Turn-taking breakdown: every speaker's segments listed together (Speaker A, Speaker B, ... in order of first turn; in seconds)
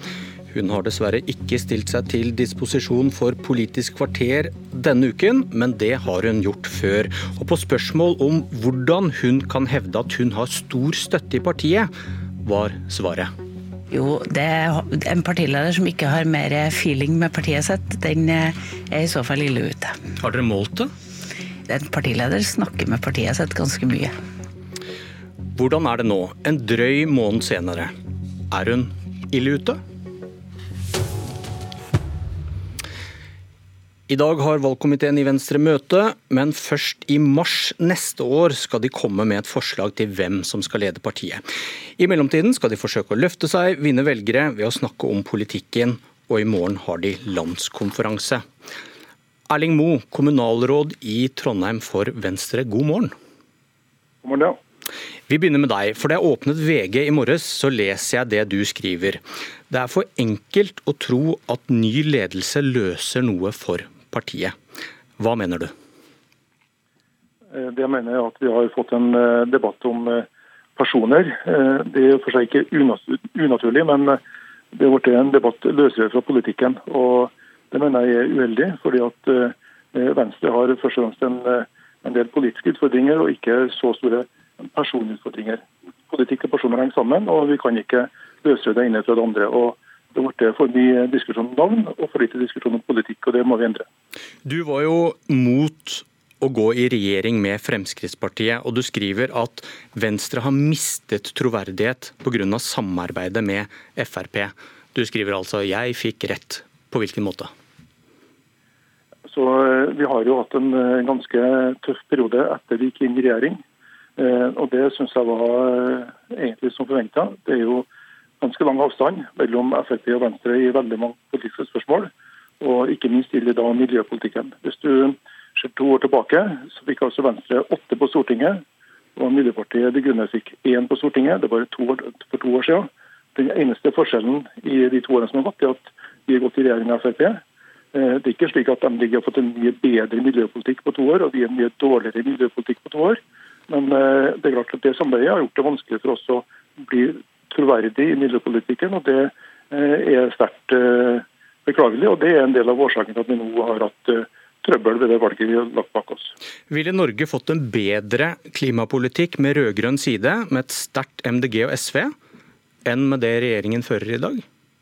Speaker A: 0.5-11.9, 12.4-13.3, 20.2-20.9, 25.5-27.9, 28.5-29.8, 34.1-41.4, 42.0-48.4, 49.5-53.1, 55.3-64.5, 65.2-65.7, 94.4-107.5, 156.7-162.1, 162.8-164.4
Speaker B: 13.9-20.0, 21.7-24.1
Speaker C: 54.2-54.5, 67.5-74.2, 74.7-93.9, 109.3-113.6, 114.2-117.9, 118.4-128.6, 129.2-137.4, 137.9-156.3